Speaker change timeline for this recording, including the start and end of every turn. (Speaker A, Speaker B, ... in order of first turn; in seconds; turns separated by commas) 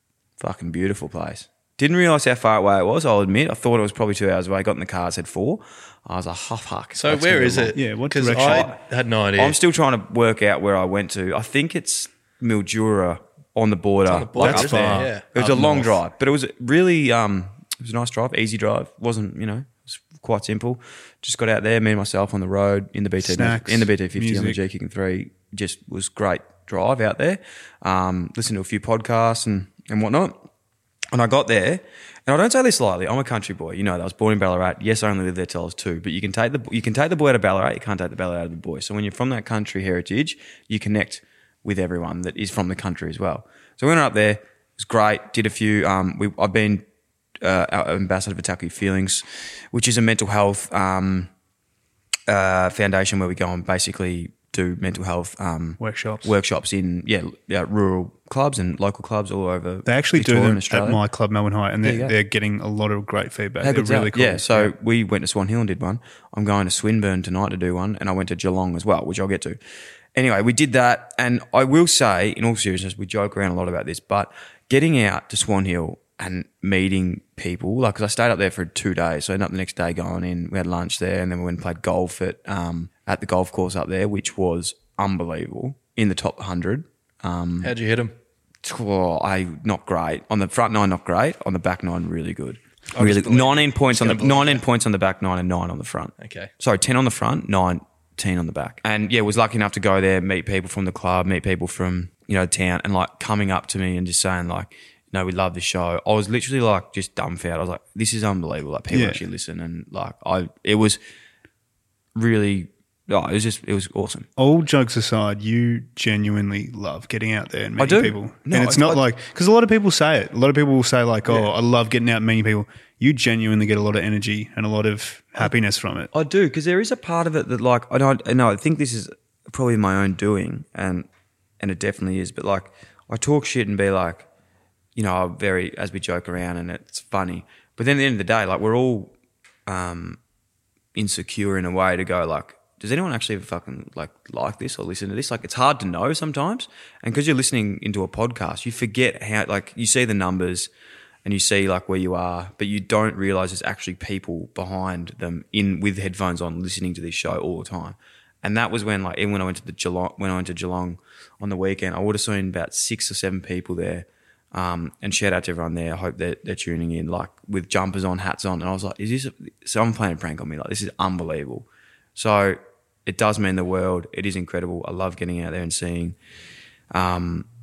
Speaker A: 0.4-7.8, Speaker B: 7.0-9.6, Speaker C: 7.8-8.7, Speaker A: 8.4-8.8, Speaker A: 9.4-30.4, Speaker B: 14.1-15.9, Speaker C: 14.4-15.7, Speaker C: 23.2-24.6, Speaker A: 31.1-46.8, Speaker A: 47.4-51.3, Speaker A: 52.3-61.0, Speaker C: 55.8-56.3, Speaker C: 59.9-64.7, Speaker A: 61.8-62.1, Speaker A: 63.6-69.6, Speaker A: 70.1-87.7, Speaker B: 87.6-88.1, Speaker A: 88.6-111.0, Speaker B: 92.9-94.6, Speaker B: 96.2-96.5, Speaker C: 108.9-109.2, Speaker A: 112.1-114.3, Speaker C: 114.4-126.1, Speaker A: 117.8-119.0, Speaker A: 126.1-131.1, Speaker A: 131.6-134.3, Speaker A: 134.9-139.1, Speaker A: 139.7-140.2, Speaker A: 140.9-150.7, Speaker A: 151.2-176.2, Speaker A: 176.9-177.5